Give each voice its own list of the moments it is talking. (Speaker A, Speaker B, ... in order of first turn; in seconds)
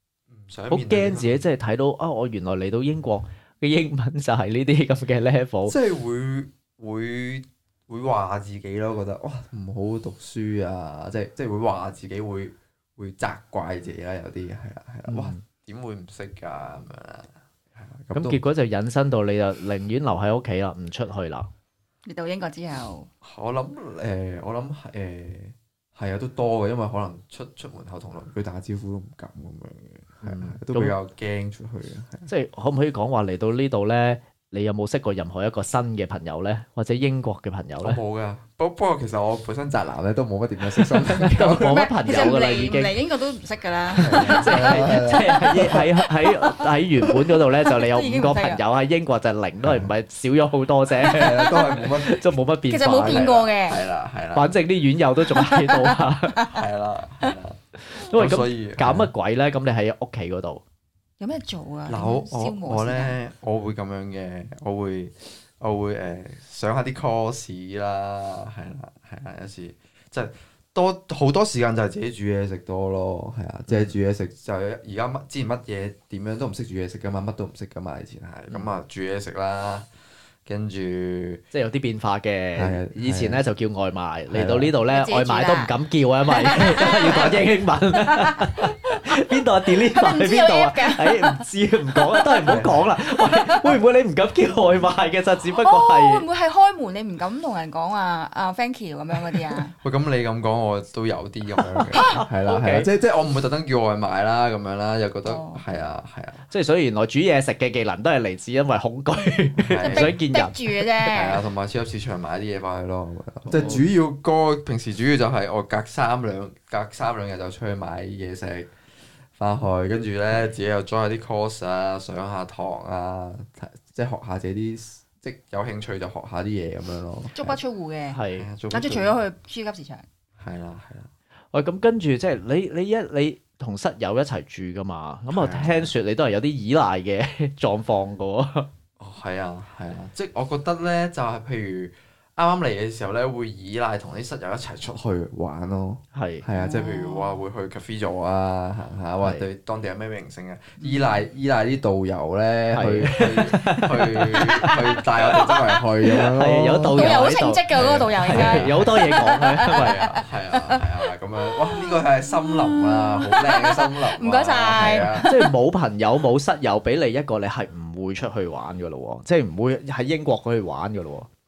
Speaker A: 0.3-1.4, 5.7-18.4, 23.2-32.3, 37.8-41.8, 44.0-45.9, 49.6-49.9, 51.0-52.2, 53.0-54.5, 56.5-57.6, 58.1-59.1, 61.9-79.9, 80.4-81.4, 82.5-83.4, 84.3-84.7, 92.5-92.9, 99.8-106.5, 109.6-110.2, 111.1-118.7, 119.4-127.6, 128.3-129.2, 130.4-131.1, 135.3-135.9, 139.0-157.1, 157.7-159.1, 159.7-165.3
Speaker B: 0.7-5.7, 15.1-15.4, 18.1-21.5, 30.2-30.9, 32.3-38.0, 41.2-42.9, 44.0-53.3, 54.3-56.4, 57.9-60.6, 73.7-73.9, 81.5-96.2, 101.8-102.9, 106.5-111.2, 113.5-113.8, 128.1-128.5, 131.5-138.7, 146.1-146.4, 149.2-149.5, 152.7-154.8, 156.4-157.6, 158.2-160.0, 165.2-171.3
Speaker C: 22.0-23.1, 41.6-46.4, 47.6-48.6, 51.0-51.6, 52.7-53.8, 55.3-56.6, 61.2-63.1, 84.8-85.7, 86.3-89.0, 89.7-91.4, 93.3-93.7, 95.4-99.8, 101.9-102.2, 105.2-105.6, 109.8-111.4, 127.3-130.0, 146.5-147.4, 150.8-151.2, 156.9-160.8, 161.7-165.5